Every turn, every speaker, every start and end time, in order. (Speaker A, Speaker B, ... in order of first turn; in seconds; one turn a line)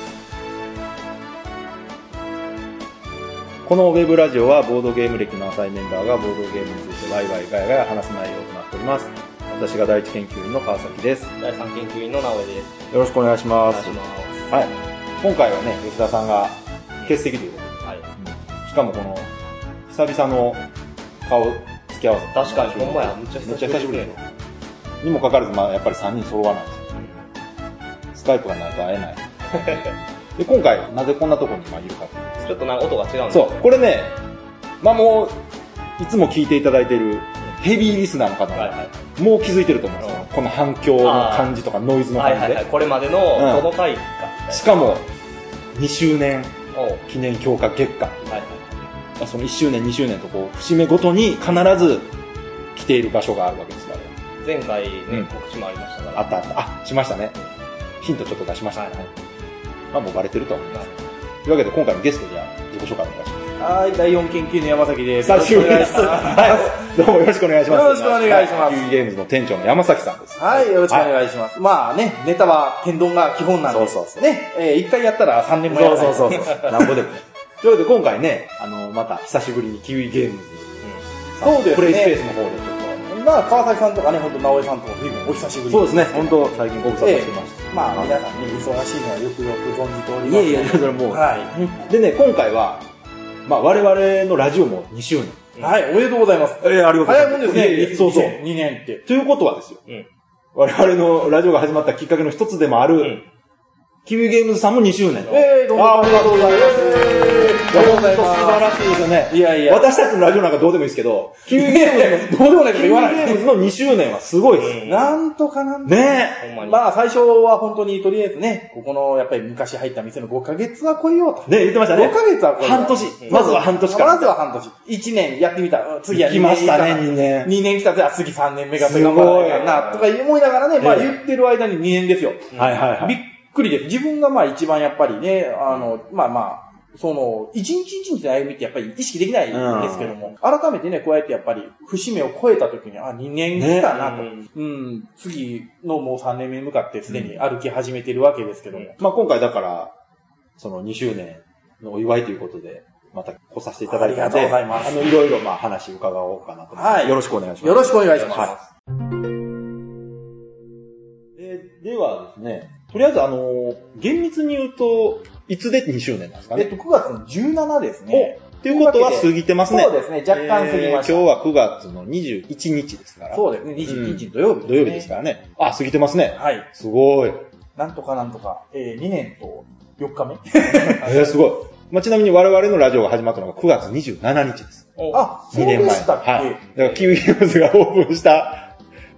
Speaker A: 3.6-11.3
Speaker B: 11.4-12.8
Speaker A: 12.9-14.0
Speaker B: 13.7-14.7
Speaker A: 14.5-19.3
Speaker A: 19.9-20.7
Speaker A: 21.2-24.2
Speaker B: 22.3-24.1
Speaker A: 25.0-26.9
Speaker A: 28.1-32.5
Speaker B: 32.4-33.6
Speaker A: 33.3-34.2
Speaker A: 34.8-35.4
Speaker A: 36.0-42.6
Speaker B: 41.0-41.5
Speaker B: 42.1-44.6
Speaker A: 43.3-43.7
Speaker A: 44.5-45.0
Speaker A: 45.7-52.1
Speaker B: 46.7-47.0
Speaker A: 52.7-54.1
Speaker B: 54.4-56.3
Speaker A: 56.1-57.4
Speaker A: 58.0-59.1
Speaker A: 59.9-63.6
Speaker C: 63.6-66.9
Speaker A: 65.2-71.1
Speaker C: 67.7-68.9
Speaker C: 70.4-76.9
Speaker A: 73.7-74.2
Speaker A: 75.7-80.8
Speaker A: 81.3-83.0
Speaker C: 81.4-82.2
Speaker C: 83.0-91.8
Speaker A: 85.7-88.6
Speaker A: 90.2-92.8
Speaker A: 93.4-95.5
Speaker C: 95.6-99.0
Speaker A: 96.6-98.4
Speaker A: 99.0-99.8
Speaker A: 100.5-103.2
Speaker A: 104.0-114.8
Speaker C: 105.3-108.7
Speaker C: 109.3-110.0
Speaker C: 111.5-113.5
Speaker B: 114.6-115.2
Speaker C: 114.8-148.9
Speaker A: 115.8-116.4
Speaker B: 116.4-116.8
Speaker A: 121.5-124.3
Speaker A: 126.1-127.5
Speaker A: 128.8-129.8
Speaker B: 129.2-130.1
Speaker A: 130.8-131.1
Speaker A: 132.5-133.2
Speaker A: 139.5-140.2
Speaker A: 143.5-143.9
Speaker B: 143.9-144.5
Speaker A: 147.1-147.4
Speaker A: 149.0-149.9
Speaker A: 150.6-158.5
Speaker C: 153.9-155.1
Speaker C: 156.7-158.5
Speaker B: 158.1-158.6
Speaker A: 161.3-166.7
Speaker C: 166.5-171.3
Speaker A: 168.1-177.4
Speaker C: 173.3-175.1
Speaker C: 176.3-176.7
Speaker C: 177.8-181.1
Speaker A: 180.7-184.9
Speaker B: 185.0-185.3
Speaker C: 185.1-186.6
Speaker A: 185.5-188.7
Speaker B: 186.8-187.0